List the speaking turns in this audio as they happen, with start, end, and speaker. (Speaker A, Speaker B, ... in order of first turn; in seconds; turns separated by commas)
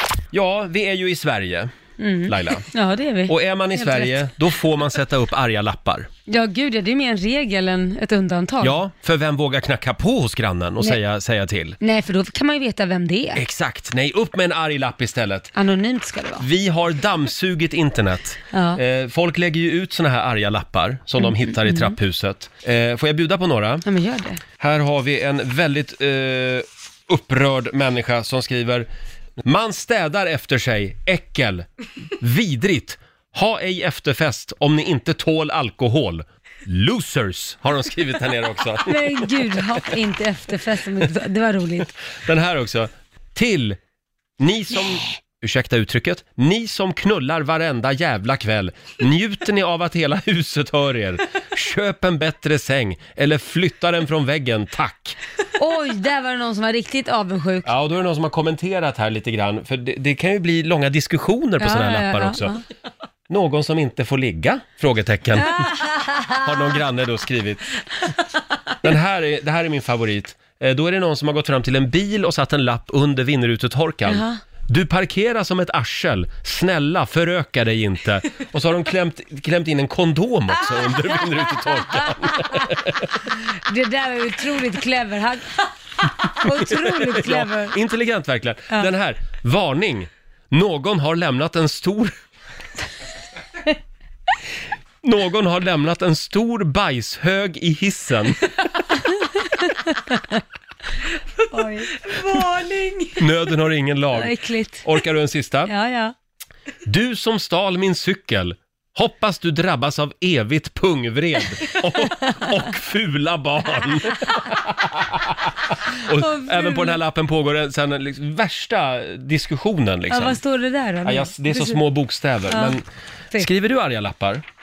Speaker A: 0.3-1.7, Speaker B: 2.0-4.3, Speaker A: 2.3-2.6, Speaker A: 3.3-6.1, Speaker B: 6.3-8.8, Speaker A: 8.6-11.8, Speaker B: 11.8-13.4, Speaker A: 13.3-15.5, Speaker B: 15.6-16.4, Speaker A: 16.4-23.8, Speaker B: 18.5-18.8, Speaker B: 21.3-21.9, Speaker B: 23.9-24.4, Speaker A: 24.6-28.9, Speaker A: 29.4-31.6, Speaker A: 32.2-39.2, Speaker B: 38.9-41.9, Speaker A: 42.2-43.8, Speaker A: 44.4-55.2, Speaker B: 55.6-57.7, Speaker A: 57.6-62.5, Speaker B: 61.6-62.6, Speaker A: 63.3-65.6, Speaker B: 65.4-66.4, Speaker A: 66.4-67.6, Speaker A: 68.8-83.1, Speaker B: 74.1-74.4, Speaker B: 80.7-82.6, Speaker B: 83.7-85.6, Speaker B: 86.2-87.8, Speaker A: 86.4-92.1, Speaker A: 95.0-98.4, Speaker B: 99.6-100.3, Speaker B: 101.5-103.2, Speaker A: 103.2-105.7, Speaker B: 104.2-104.9, Speaker B: 105.7-106.1, Speaker A: 106.9-120.4, Speaker B: 116.1-117.0, Speaker B: 120.1-121.8, Speaker A: 121.0-124.4, Speaker B: 122.5-122.8